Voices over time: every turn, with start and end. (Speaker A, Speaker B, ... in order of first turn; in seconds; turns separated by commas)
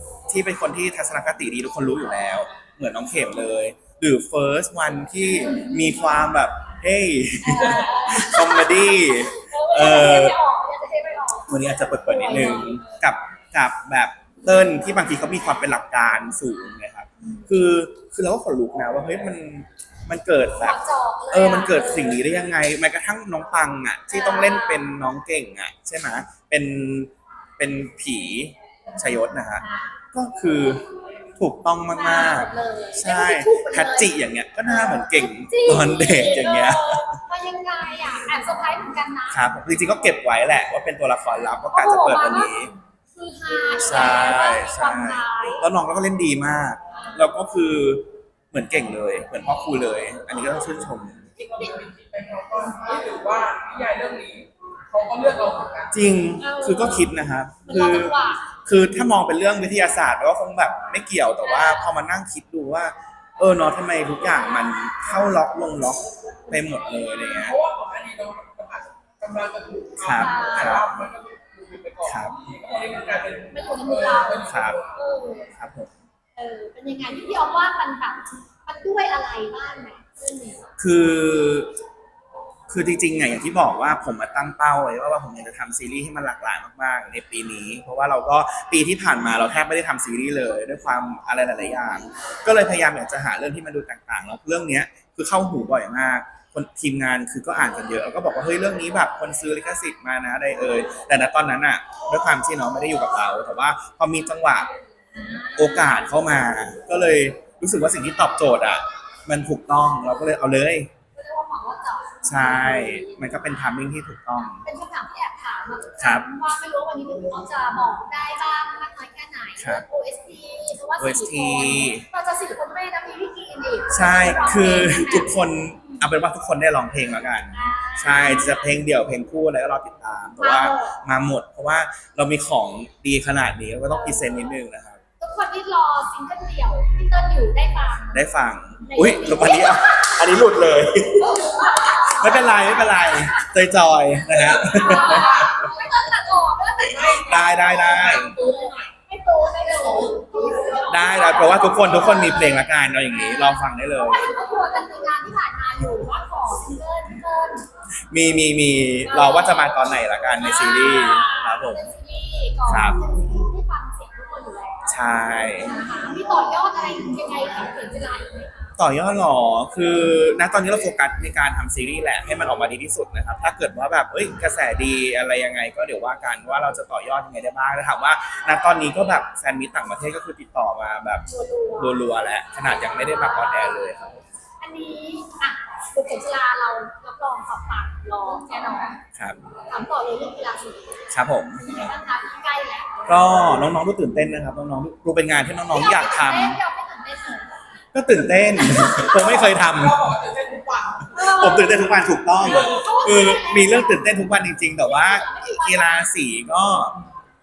Speaker A: 0.3-10.4, Speaker B: 7.4-12.9, Speaker A: 11.5-20.8, Speaker B: 17.2-17.5, Speaker B: 20.6-22.2, Speaker A: 21.3-30.9, Speaker B: 24.1-24.9, Speaker B: 29.6-30.0, Speaker A: 31.4-37.1, Speaker B: 31.9-34.1, Speaker B: 34.8-39.5, Speaker A: 39.3-42.7, Speaker B: 41.7-45.6, Speaker A: 43.8-51.2, Speaker B: 46.9-47.3, Speaker C: 51.4-56.0, Speaker B: 51.4-51.8, Speaker A: 55.9-67.6, Speaker B: 56.4-57.1, Speaker B: 57.6-58.5, Speaker B: 61.4-61.9, Speaker B: 66.5-66.8, Speaker C: 67.3-75.0, Speaker A: 70.0-71.0, Speaker B: 70.1-71.0, Speaker A: 72.0-72.4, Speaker B: 73.5-75.5, Speaker A: 74.5-74.8, Speaker A: 75.5-75.9, Speaker B: 76.4-80.6, Speaker A: 80.8-81.7, Speaker A: 82.7-104.7, Speaker B: 105.1-106.1, Speaker A: 105.5-110.9, Speaker B: 111.1-113.4, Speaker A: 112.2-114.7, Speaker B: 114.4-126.1, Speaker A: 116.0-116.3, Speaker A: 119.6-119.8, Speaker A: 121.0-122.1, Speaker A: 123.9-135.0, Speaker B: 127.5-128.8, Speaker B: 130.4-131.0, Speaker B: 133.9-134.5, Speaker B: 135.2-138.2, Speaker A: 138.1-145.6, Speaker B: 138.8-140.3, Speaker B: 141.2-143.5, Speaker B: 144.6-157.7, Speaker C: 146.8-148.4, Speaker A: 147.1-148.4, Speaker A: 150.9-154.3, Speaker A: 158.1-161.9, Speaker B: 159.0-159.8, Speaker B: 160.4-165.0, Speaker A: 162.7-163.0, Speaker A: 164.9-165.7, Speaker B: 165.5-168.8, Speaker A: 168.8-181.2, Speaker B: 181.2-182.0, Speaker A: 181.8-184.2, Speaker B: 182.9-183.8, Speaker B: 184.6-189.0, Speaker B: 189.7-191.0, Speaker A: 191.1-191.8, Speaker B: 191.6-193.1, Speaker A: 193.1-196.6, Speaker B: 195.7-197.6, Speaker A: 197.9-200.1, Speaker B: 198.5-199.5, Speaker C: 199.3-201.1, Speaker B: 201.1-204.0, Speaker A: 201.1-207.0, Speaker B: 204.8-206.1